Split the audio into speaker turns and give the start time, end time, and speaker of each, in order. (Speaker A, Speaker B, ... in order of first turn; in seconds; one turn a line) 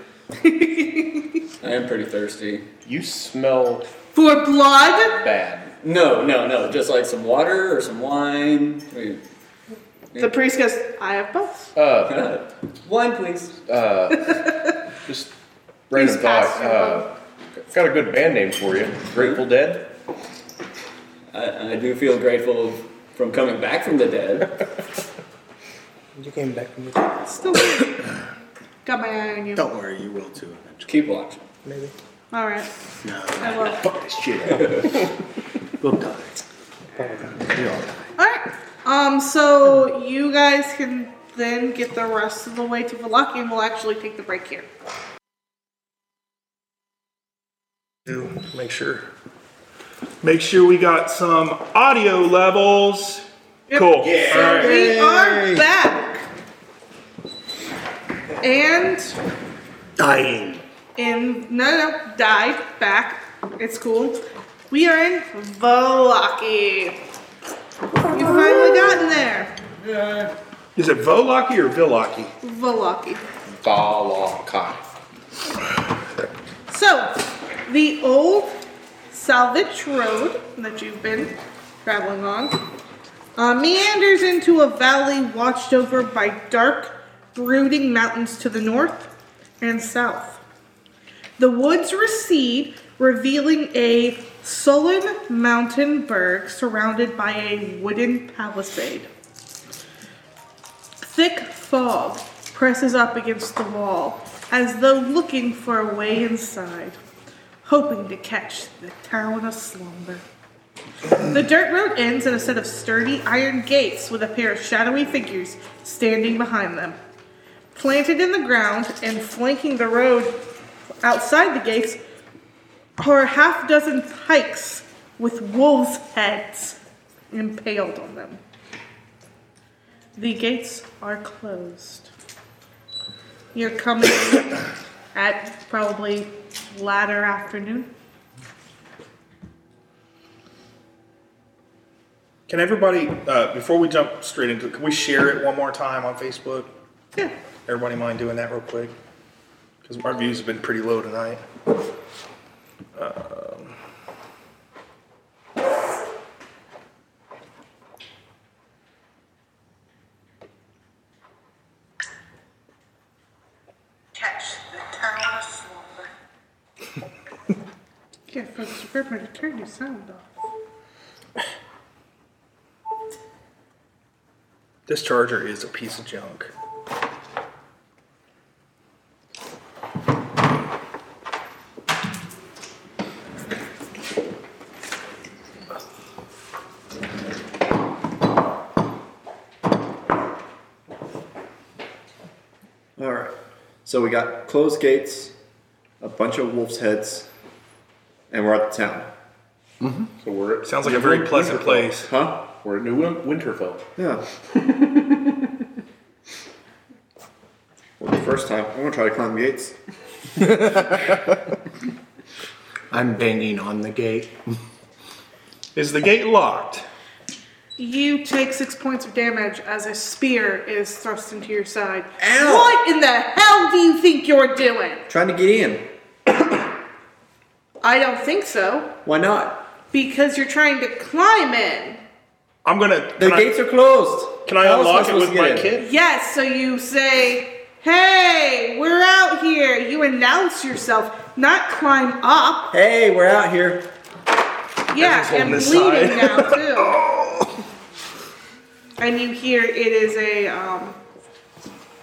Speaker A: 0.4-1.4
Speaker B: 1.6-2.7
Speaker C: 2.8-3.9
Speaker A: 4.1-5.2
Speaker C: 5.0-5.7
Speaker B: 5.8-9.2
Speaker B: 10.1-10.4
Speaker A: 10.2-11.7
Speaker C: 11.8-12.3
Speaker B: 12.0-13.7
Speaker C: 13.6-14.4
Speaker A: 14.3-14.7
Speaker C: 15.1-15.3
Speaker C: 15.9-17.1
Speaker A: 15.9-17.1
Speaker C: 17.7-19.9
Speaker B: 19.1-19.4
Speaker B: 21.3-24.5
Speaker D: 26.2-27.2
Speaker A: 27.2-28.0
Speaker A: 28.8-29.6
Speaker E: 29.6-30.9
Speaker B: 30.9-31.4
Speaker D: 31.6-31.9
Speaker A: 32.3-32.7
Speaker E: 33.0-33.7
Speaker A: 33.4-33.8
Speaker C: 33.8-34.9
Speaker B: 34.5-34.9
Speaker E: 35.8-36.2
Speaker D: 37.0-37.6
Speaker A: 38.2-44.6
Speaker F: 48.1-49.1
Speaker F: 50.2-54.8
Speaker A: 53.7-56.2
Speaker E: 54.0-55.6
Speaker A: 58.4-59.1
Speaker E: 60.0-60.6
Speaker A: 61.0-64.2
Speaker A: 64.7-67.0
Speaker A: 68.1-69.5
Speaker B: 69.8-70.3
Speaker F: 70.8-72.3
Speaker A: 72.4-73.2
Speaker C: 73.5-74.8
Speaker A: 76.7-78.5
Speaker A: 79.1-82.6
Speaker A: 83.4-90.4
Speaker A: 91.4-99.1
Speaker A: 101.0-107.0
Speaker A: 107.6-110.2
Speaker A: 111.2-117.0
Speaker A: 117.7-120.4
Speaker A: 121.0-122.0
Speaker A: 123.0-126.8
Speaker A: 127.3-128.4
Speaker A: 130.2-132.1
Speaker A: 133.5-137.9
Speaker F: 142.5-146.7
Speaker F: 147.7-148.9
Speaker F: 149.8-151.4
Speaker F: 153.0-153.7
Speaker A: 164.1-166.1
Speaker A: 168.3-170.4
Speaker F: 174.9-176.5
Speaker G: 193.0-193.3
Speaker G: 193.8-195.3
Speaker G: 196.0-197.3
Speaker G: 198.3-199.1
Speaker C: 200.2-201.9
Speaker F: 200.6-202.1
Speaker G: 201.5-202.4
Speaker C: 202.6-203.8
Speaker G: 203.9-204.2
Speaker G: 208.0-209.7
Speaker E: 212.9-214.3
Speaker F: 215.7-216.8
Speaker A: 217.8-225.1
Speaker G: 222.2-222.8
Speaker G: 225.1-225.8
Speaker A: 227.8-228.9
Speaker G: 229.0-229.6
Speaker A: 229.9-232.0
Speaker F: 232.6-233.5
Speaker G: 233.2-235.7
Speaker F: 234.4-235.9
Speaker A: 235.8-242.7
Speaker G: 242.7-243.9
Speaker A: 244.9-247.0
Speaker F: 244.9-246.8
Speaker A: 249.0-251.0